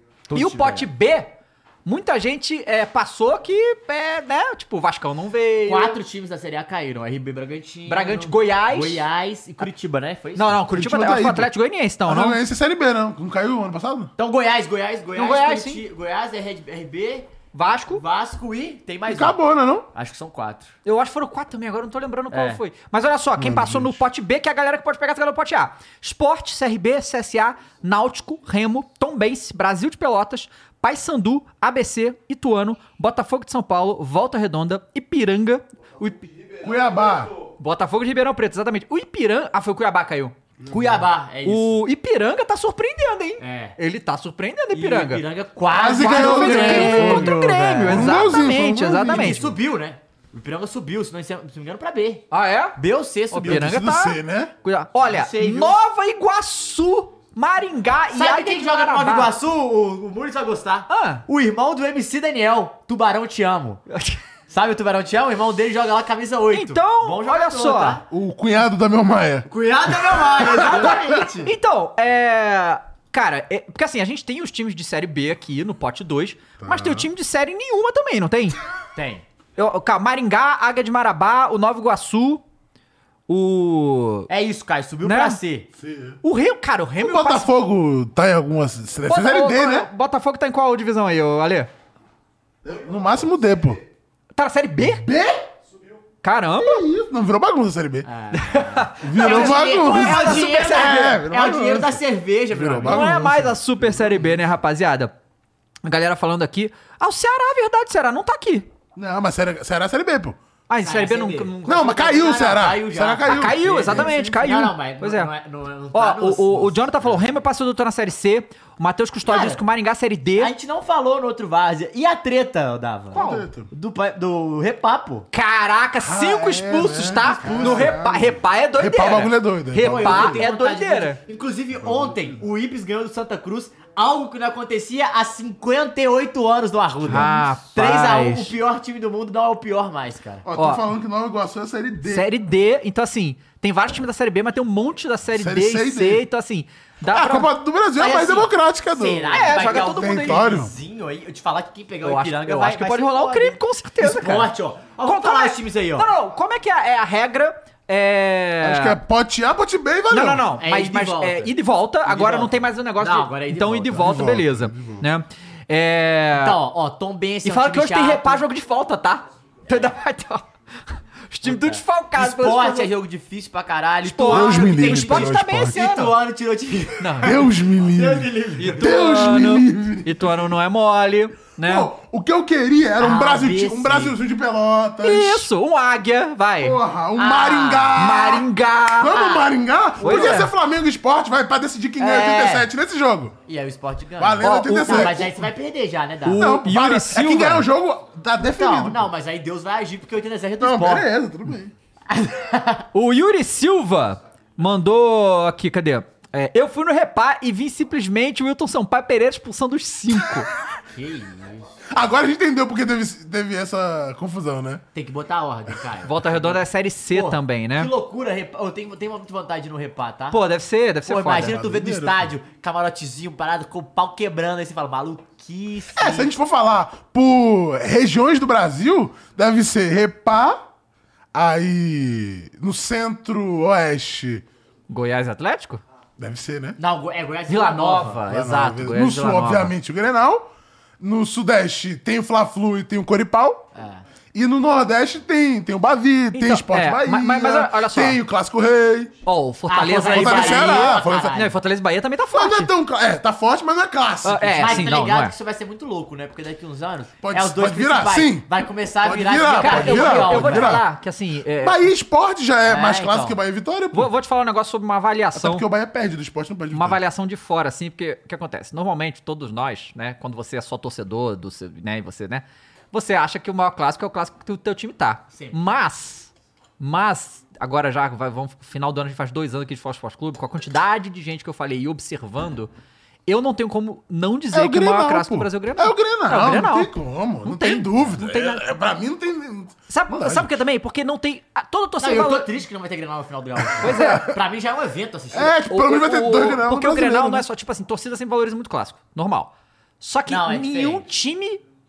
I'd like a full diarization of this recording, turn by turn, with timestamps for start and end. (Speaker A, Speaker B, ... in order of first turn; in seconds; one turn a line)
Speaker A: 0.3-0.9
Speaker B: 0.3-5.9
Speaker A: 5.7-10.6
Speaker B: 7.9-9.0
Speaker B: 10.3-12.4
Speaker C: 10.7-11.5
Speaker C: 12.0-14.1
Speaker A: 14.2-17.3
Speaker B: 15.2-15.8
Speaker B: 17.5-18.0
Speaker A: 17.9-19.4
Speaker C: 19.1-19.9
Speaker A: 19.9-20.7
Speaker B: 20.8-36.3
Speaker A: 22.3-22.6
Speaker C: 23.4-24.0
Speaker C: 36.6-37.3
Speaker B: 37.6-40.4
Speaker C: 40.6-41.0
Speaker A: 40.7-41.8
Speaker B: 41.4-45.2
Speaker A: 43.4-43.8
Speaker A: 44.7-48.4
Speaker C: 45.7-49.5
Speaker B: 45.9-49.5
Speaker A: 49.0-53.8
Speaker B: 52.3-52.8
Speaker B: 53.3-59.3
Speaker C: 53.4-54.5
Speaker A: 55.1-55.8
Speaker A: 58.1-63.8
Speaker B: 60.9-61.2
Speaker B: 63.9-64.2
Speaker A: 64.5-68.0
Speaker B: 66.5-68.0
Speaker C: 68.1-69.5
Speaker A: 69.5-71.5
Speaker C: 70.4-71.1
Speaker B: 71.4-78.6
Speaker C: 76.6-77.1
Speaker A: 79.0-79.2
Speaker B: 79.5-82.4
Speaker B: 83.3-84.3
Speaker A: 84.3-85.7
Speaker B: 85.0-85.4
Speaker C: 85.8-86.2
Speaker B: 86.2-87.5
Speaker C: 87.0-89.9
Speaker B: 89.1-91.7
Speaker C: 92.6-93.8
Speaker B: 94.3-95.0
Speaker C: 94.8-95.5
Speaker B: 96.2-96.8
Speaker C: 96.6-98.1
Speaker A: 98.0-103.0
Speaker B: 98.3-101.2
Speaker C: 99.0-104.2
Speaker B: 102.8-105.1
Speaker B: 105.8-108.7
Speaker C: 108.9-110.4
Speaker B: 110.7-112.2
Speaker A: 110.8-116.8
Speaker C: 111.6-114.4
Speaker B: 113.2-115.3
Speaker B: 115.9-120.5
Speaker A: 119.3-119.6
Speaker A: 120.4-125.3
Speaker B: 123.1-123.5
Speaker C: 123.1-123.7
Speaker B: 125.3-131.2
Speaker C: 126.0-130.5
Speaker A: 127.4-128.0
Speaker A: 129.8-140.4
Speaker C: 131.8-132.4
Speaker C: 137.0-137.3
Speaker B: 137.1-138.5
Speaker C: 140.4-142.3
Speaker B: 140.6-140.8
Speaker B: 142.0-147.5
Speaker C: 145.3-146.2
Speaker C: 147.1-150.7
Speaker A: 148.0-156.1
Speaker B: 149.3-150.5
Speaker B: 152.0-159.0
Speaker C: 158.6-160.5
Speaker B: 160.1-166.6
Speaker A: 160.6-161.5
Speaker A: 162.0-164.1
Speaker C: 163.9-165.0
Speaker A: 166.4-168.4
Speaker B: 167.4-172.9
Speaker A: 171.4-179.2
Speaker B: 174.0-176.2
Speaker C: 174.3-176.0
Speaker B: 177.0-177.4
Speaker C: 177.2-180.4
Speaker B: 178.6-181.9
Speaker C: 181.6-185.5
Speaker A: 183.0-184.2
Speaker B: 185.0-186.8
Speaker C: 186.6-188.4
Speaker A: 187.2-188.2
Speaker B: 187.9-189.2
Speaker C: 189.0-193.4
Speaker A: 189.1-189.5
Speaker B: 190.0-190.5
Speaker A: 190.0-190.3
Speaker B: 192.0-192.7
Speaker A: 193.4-196.6
Speaker C: 194.2-195.4
Speaker B: 194.4-195.2
Speaker B: 196.2-197.7
Speaker C: 196.4-199.1
Speaker A: 198.5-201.1
Speaker C: 200.6-201.7
Speaker A: 202.1-202.8
Speaker B: 202.9-210.5
Speaker A: 210.9-211.7
Speaker C: 211.9-214.8
Speaker A: 214.9-216.6
Speaker B: 216.0-217.9
Speaker A: 217.1-220.4
Speaker B: 220.3-221.6
Speaker A: 221.1-226.3
Speaker C: 221.4-222.3
Speaker C: 225.9-230.6
Speaker C: 231.3-234.4
Speaker B: 234.9-235.8
Speaker C: 236.2-236.8
Speaker A: 236.8-238.2
Speaker B: 237.5-239.7
Speaker C: 238.2-240.5
Speaker C: 241.0-243.7
Speaker A: 243.7-244.0
Speaker C: 244.3-249.1
Speaker B: 246.3-248.2
Speaker B: 249.2-252.7
Speaker A: 249.7-251.5
Speaker C: 250.0-251.4
Speaker C: 252.3-254.9
Speaker B: 254.2-255.3
Speaker A: 254.6-260.8
Speaker C: 257.2-260.8
Speaker B: 259.5-261.9
Speaker C: 261.6-264.1
Speaker A: 262.6-263.4
Speaker B: 263.9-265.6
Speaker C: 265.3-267.0
Speaker B: 266.7-282.7
Speaker B: 283.3-286.9
Speaker C: 284.5-290.5
Speaker B: 287.4-288.7
Speaker B: 289.9-292.5
Speaker A: 292.0-295.6
Speaker B: 293.8-294.3
Speaker C: 293.8-294.4
Speaker C: 295.3-297.4
Speaker B: 295.7-301.6
Speaker A: 300.3-301.1